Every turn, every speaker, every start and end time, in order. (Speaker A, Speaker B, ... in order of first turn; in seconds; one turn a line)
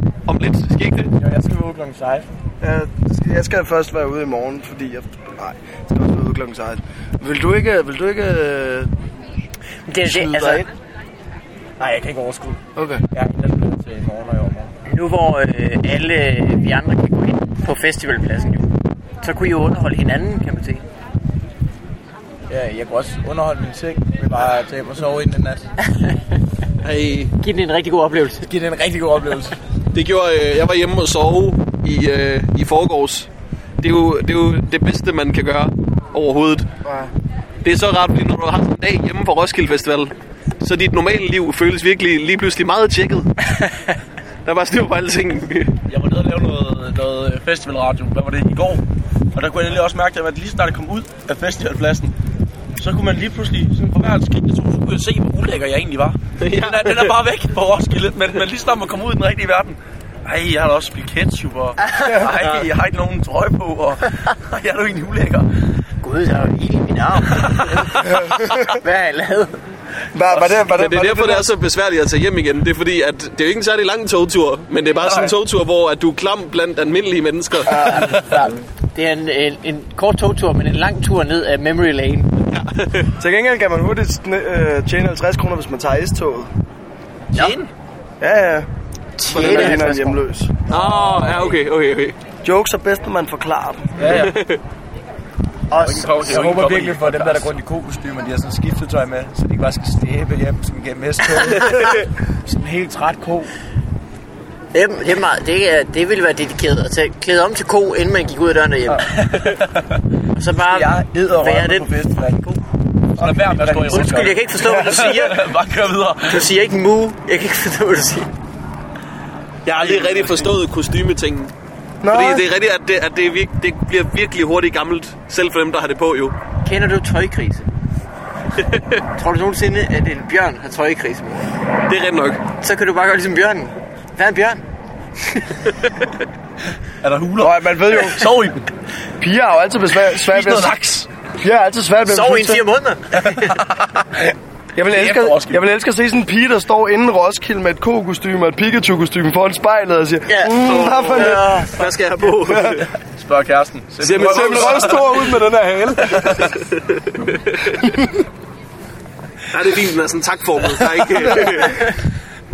Speaker A: 0.3-1.1
Speaker B: 1.2-2.3
Speaker C: 2.6-8.9
Speaker D: 9.9-10.7
Speaker C: 10.0-10.7
Speaker B: 11.8-14.7
Speaker C: 12.8-13.0
Speaker D: 14.9-18.7
Speaker D: 19.2-20.8
Speaker B: 22.5-25.6
Speaker D: 25.8-26.2
Speaker A: 26.8-27.3
Speaker D: 27.4-28.5
Speaker B: 28.5-29.6
Speaker A: 29.9-33.3
Speaker A: 33.8-36.7
Speaker C: 36.9-37.1
Speaker A: 37.6-43.6
Speaker A: 44.5-45.8
Speaker E: 45.9-48.8
Speaker E: 49.3-52.1
Speaker E: 52.8-65.5
Speaker A: 56.4-57.1
Speaker D: 66.0-69.6
Speaker E: 67.4-67.9
Speaker C: 68.1-68.6
Speaker C: 70.1-71.5
Speaker A: 70.4-78.0
Speaker B: 77.7-78.5
Speaker D: 77.8-78.3
Speaker D: 79.0-82.3
Speaker A: 82.5-83.1
Speaker C: 83.2-86.5
Speaker E: 87.3-87.7
Speaker C: 88.2-88.7
Speaker D: 89.2-90.2
Speaker C: 89.3-90.5
Speaker A: 90.7-92.2
Speaker C: 92.4-94.0
Speaker E: 94.0-94.4
Speaker A: 94.0-94.6
Speaker B: 95.7-103.5
Speaker E: 95.8-97.5
Speaker D: 104.7-109.6
Speaker E: 109.3-110.0
Speaker D: 110.4-111.9
Speaker B: 110.5-112.6
Speaker E: 113.2-116.5
Speaker B: 113.2-114.8
Speaker D: 113.9-115.5
Speaker D: 116.2-118.3
Speaker A: 119.7-121.5
Speaker E: 119.8-120.4
Speaker C: 122.0-122.5
Speaker A: 122.1-126.3
Speaker D: 126.6-127.7
Speaker A: 128.6-128.8
Speaker D: 129.2-131.5
Speaker A: 131.9-132.4
Speaker D: 132.6-134.6
Speaker D: 135.2-135.6
Speaker E: 137.0-138.6
Speaker C: 137.4-138.5
Speaker C: 139.2-140.8
Speaker E: 140.2-141.1
Speaker C: 141.4-142.7
Speaker D: 142.1-143.7
Speaker E: 143.2-144.0
Speaker C: 144.8-151.6
Speaker E: 144.9-145.6
Speaker D: 150.3-151.9
Speaker A: 150.6-152.9
Speaker C: 152.5-152.8
Speaker E: 153.2-155.3
Speaker A: 154.0-155.0
Speaker C: 154.2-156.5
Speaker A: 156.3-157.8
Speaker A: 159.5-162.0